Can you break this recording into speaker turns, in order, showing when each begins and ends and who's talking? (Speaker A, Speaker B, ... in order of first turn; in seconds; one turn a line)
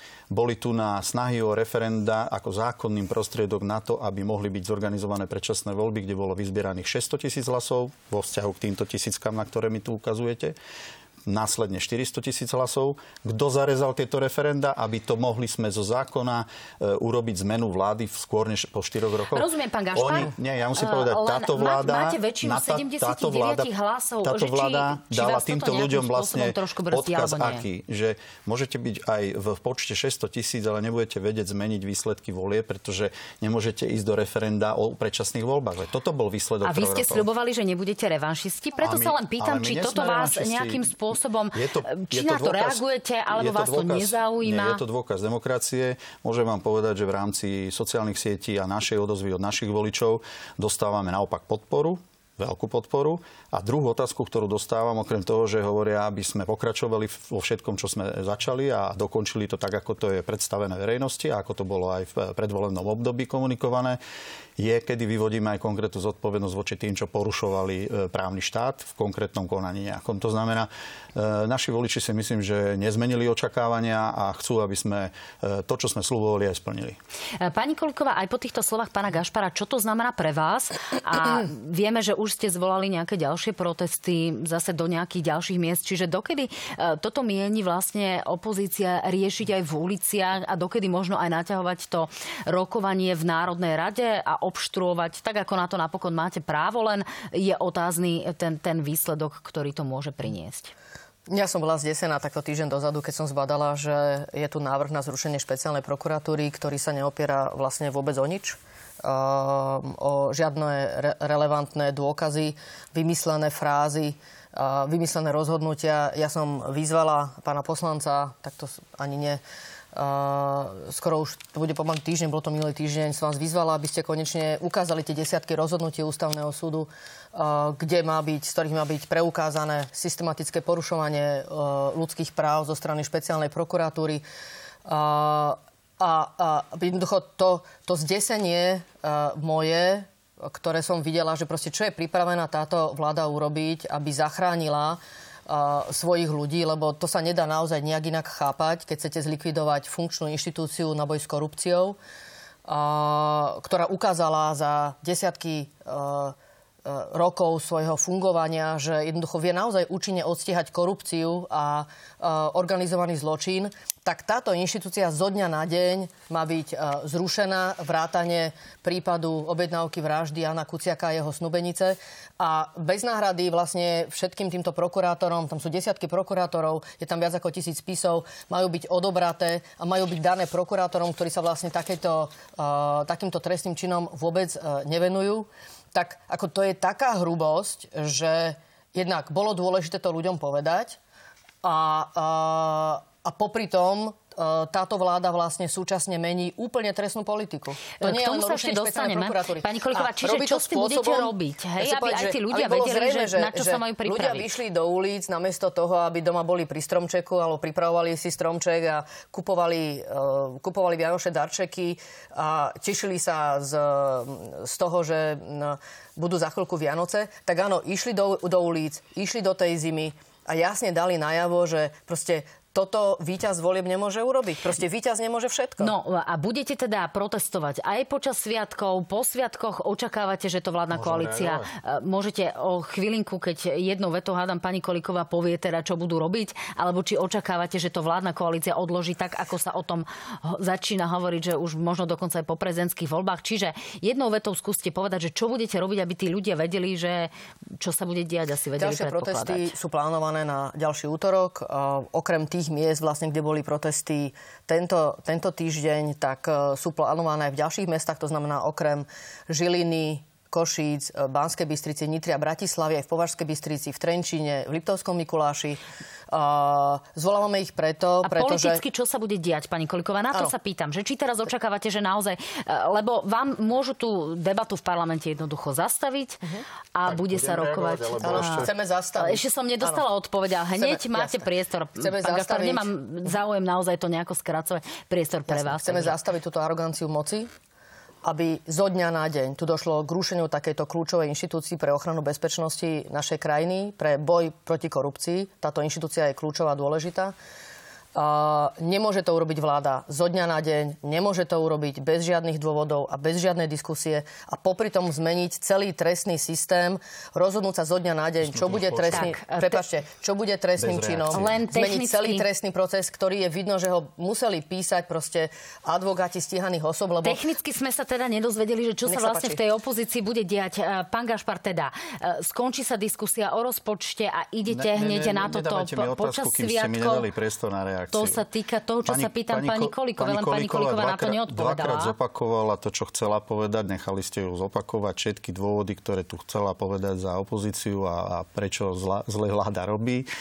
Speaker A: 0.3-10.6
Speaker A: 11.3-23.7
Speaker B: 19.3-27.6
Speaker A: 24.2-37.3
Speaker B: 36.6-44.8
Speaker A: 38.8-41.0
Speaker A: 41.5-64.0
Speaker A: 64.6-77.0
Speaker B: 77.4-100.7
Speaker C: 101.3-119.4
Speaker C: 119.9-134.2
Speaker C: 134.9-152.0
Speaker C: 152.7-191.0
Speaker C: 191.6-225.9
Speaker B: 198.0-204.5
Speaker B: 225.8-249.7
Speaker A: 230.9-231.7
Speaker C: 248.8-268.8
Speaker B: 268.2-276.4
Speaker B: 276.9-286.2
Speaker A: 277.1-278.7
Speaker C: 278.2-280.1
Speaker C: 280.8-282.9
Speaker C: 285.5-287.5
Speaker C: 288.2-297.4
Speaker C: 298.1-317.4
Speaker A: 308.4-309.3
Speaker B: 309.1-309.8
Speaker A: 310.8-311.6
Speaker B: 311.3-312.4
Speaker B: 317.2-327.3
Speaker C: 319.1-319.6
Speaker A: 324.7-328.4
Speaker B: 328.1-332.1
Speaker A: 329.1-340.3